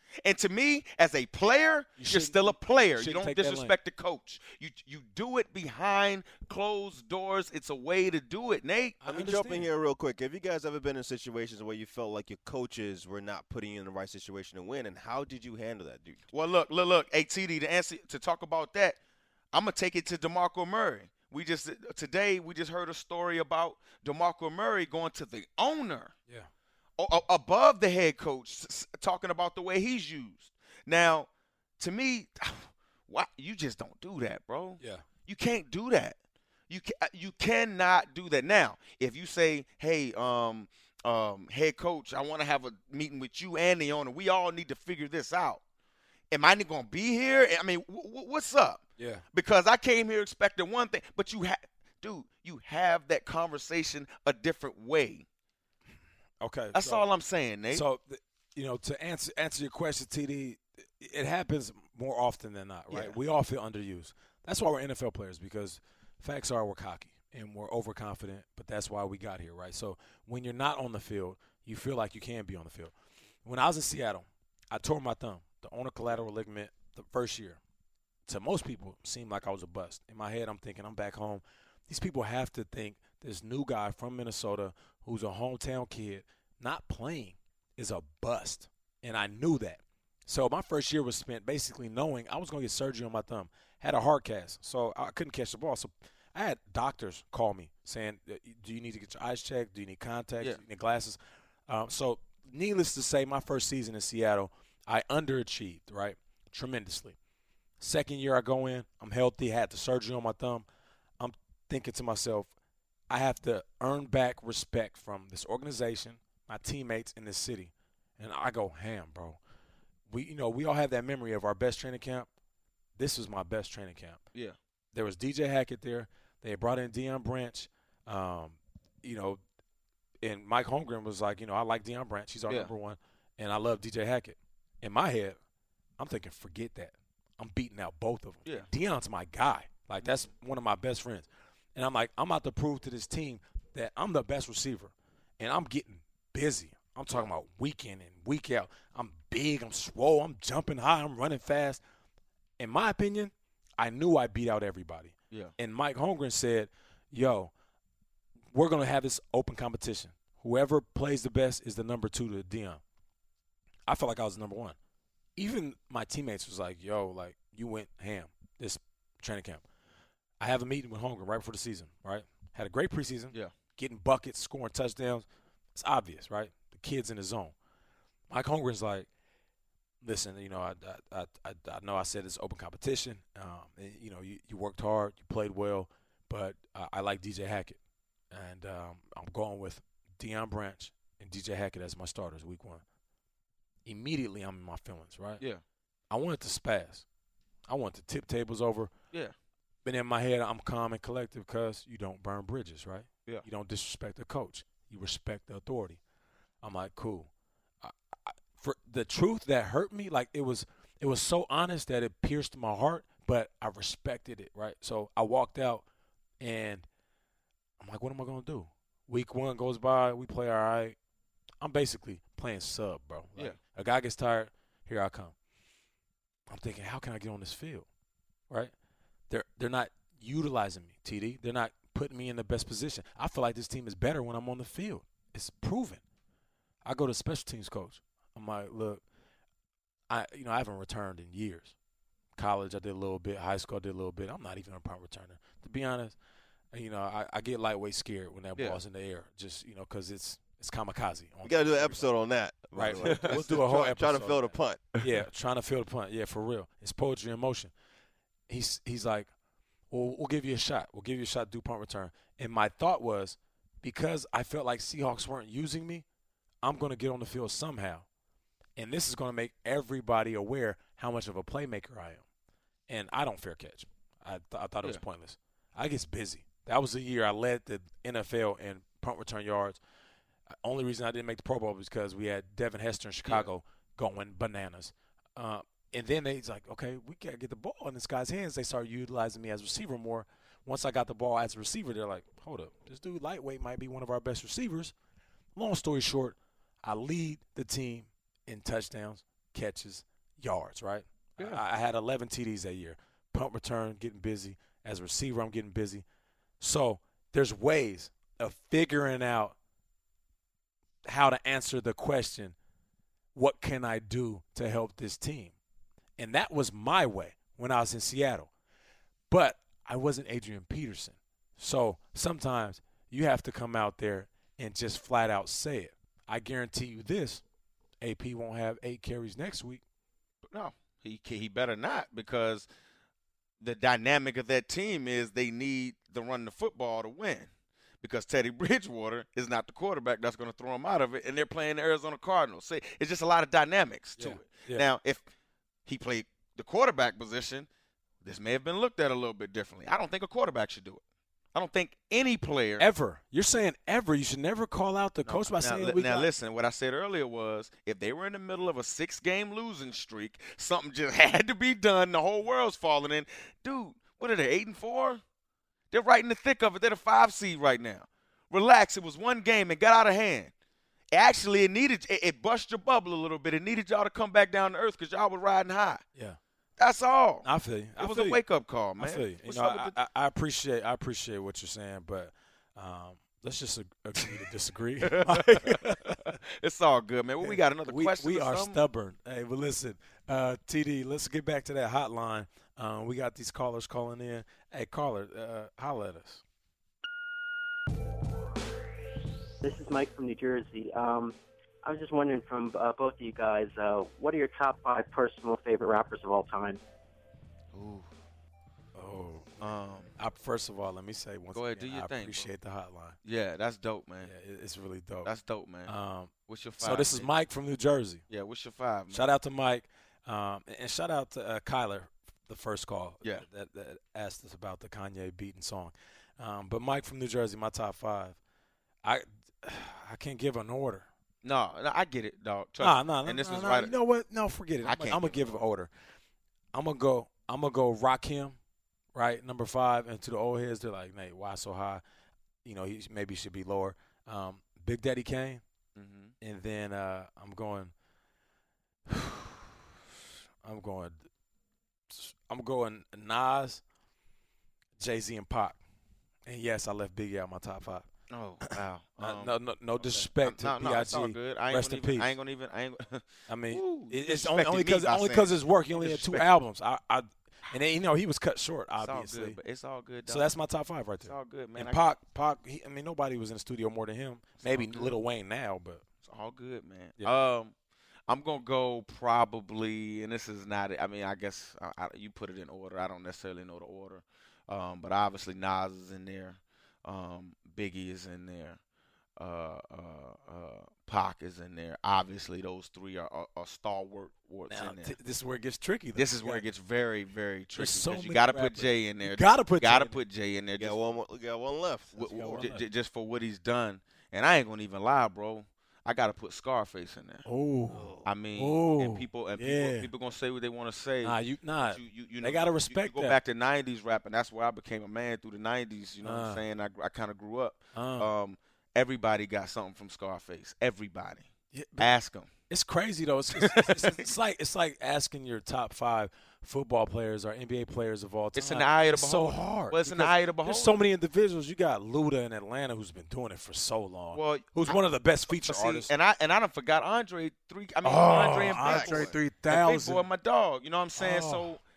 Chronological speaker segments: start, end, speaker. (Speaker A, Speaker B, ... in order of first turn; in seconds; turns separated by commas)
Speaker A: 0.2-9.0, Speaker B: 2.0-3.7, Speaker B: 9.0-9.7, Speaker C: 9.1-16.2, Speaker A: 16.3-19.0, Speaker A: 19.5-26.1, Speaker A: 27.0-31.3, Speaker A: 31.8-36.2, Speaker B: 34.8-35.0, Speaker A: 36.7-45.6, Speaker A: 46.3-48.8, Speaker B: 49.0-49.2, Speaker A: 49.3-55.2, Speaker B: 56.4-57.1, Speaker A: 56.7-57.9, Speaker B: 57.7-72.9, Speaker A: 62.9-63.2, Speaker B: 73.5-77.6, Speaker B: 78.3-107.2, Speaker B: 107.8-110.7, Speaker B: 111.2-112.5, Speaker B: 113.1-119.4, Speaker B: 120.1-122.3, Speaker B: 123.0-124.2, Speaker B: 124.9-129.4, Speaker B: 130.2-135.4, Speaker A: 132.5-132.7, Speaker B: 136.0-151.8, Speaker B: 152.6-157.5, Speaker B: 158.5-162.8, Speaker B: 163.9-164.8, Speaker B: 165.4-169.6, Speaker B: 170.4-177.6, Speaker B: 178.3-179.1, Speaker B: 180.0-187.8, Speaker B: 188.3-192.8, Speaker B: 193.9-195.4, Speaker B: 196.1-197.1, Speaker B: 197.7-198.9, Speaker B: 199.8-206.0, Speaker B: 206.6-207.3, Speaker B: 207.8-215.8, Speaker B: 216.4-216.9, Speaker B: 217.8-221.0, Speaker B: 221.6-225.3, Speaker B: 226.5-227.9, Speaker B: 229.3-236.0, Speaker B: 236.8-239.0, Speaker B: 240.1-241.7, Speaker B: 242.4-246.2, Speaker B: 246.7-252.1, Speaker C: 251.4-254.9, Speaker B: 252.7-257.7, Speaker A: 253.0-253.4, Speaker B: 258.5-259.3, Speaker B: 259.9-266.1, Speaker B: 266.6-268.1, Speaker B: 268.8-272.2, Speaker B: 272.9-279.8, Speaker B: 280.5-294.9, Speaker B: 295.6-306.1, Speaker B: 306.6-309.6, Speaker B: 311.1-312.6, Speaker B: 313.4-315.6, Speaker B: 316.2-318.5, Speaker B: 319.3-327.4, Speaker B: 328.0-329.8, Speaker A: 330.5-332.7, Speaker A: 333.6-337.5, Speaker A: 338.0-345.2, Speaker B: 344.2-344.9, Speaker A: 345.9-347.7, Speaker A: 348.2-351.0, Speaker A: 351.5-352.9, Speaker B: 352.8-356.3, Speaker A: 355.2-365.2, Speaker A: 365.9-370.5, Speaker A: 371.1-376.0, Speaker A: 376.8-377.5, Speaker B: 377.4-378.4, Speaker A: 378.0-380.0, Speaker B: 379.0-386.4, Speaker A: 385.0-388.8, Speaker B: 387.4-396.4, Speaker D: 399.6-406.8, Speaker A: 407.7-408.1, Speaker B: 408.9-413.2, Speaker A: 409.6-410.1, Speaker A: 411.5-412.5, Speaker A: 413.2-414.3, Speaker B: 414.2-415.3, Speaker A: 415.2-415.9, Speaker B: 415.9-418.2, Speaker A: 416.5-417.3, Speaker A: 418.3-419.2, Speaker B: 419.1-428.4, Speaker B: 429.0-431.1, Speaker A: 431.4-433.9, Speaker B: 432.8-435.9, Speaker A: 434.8-435.6, Speaker B: 436.7-438.6, Speaker B: 439.1-442.0, Speaker B: 442.6-445.6, Speaker A: 446.0-446.3, Speaker B: 446.4-447.9, Speaker B: 449.1-449.7, Speaker B: 450.6-451.2, Speaker B: 452.1-453.8, Speaker B: 455.0-455.8, Speaker B: 456.5-458.1, Speaker A: 458.3-466.5, Speaker B: 458.6-462.4, Speaker B: 463.5-469.6, Speaker A: 469.0-470.5, Speaker B: 470.3-476.0, Speaker A: 471.2-472.1, Speaker A: 474.6-475.1, Speaker A: 476.2-477.7, Speaker A: 478.3-488.8, Speaker A: 489.4-495.2, Speaker B: 494.7-496.6, Speaker A: 496.1-501.0, Speaker B: 497.8-500.2, Speaker C: 500.8-502.7, Speaker B: 502.1-502.9, Speaker A: 502.2-507.4, Speaker B: 507.4-510.1, Speaker A: 508.2-521.5, Speaker B: 511.2-513.4, Speaker B: 516.2-516.6, Speaker B: 517.9-518.3, Speaker B: 521.7-522.1, Speaker A: 522.0-522.5, Speaker B: 522.7-536.1, Speaker A: 523.6-524.3, Speaker A: 528.5-530.9, Speaker A: 534.3-541.8, Speaker B: 538.0-540.2, Speaker C: 538.6-539.3, Speaker B: 541.2-541.8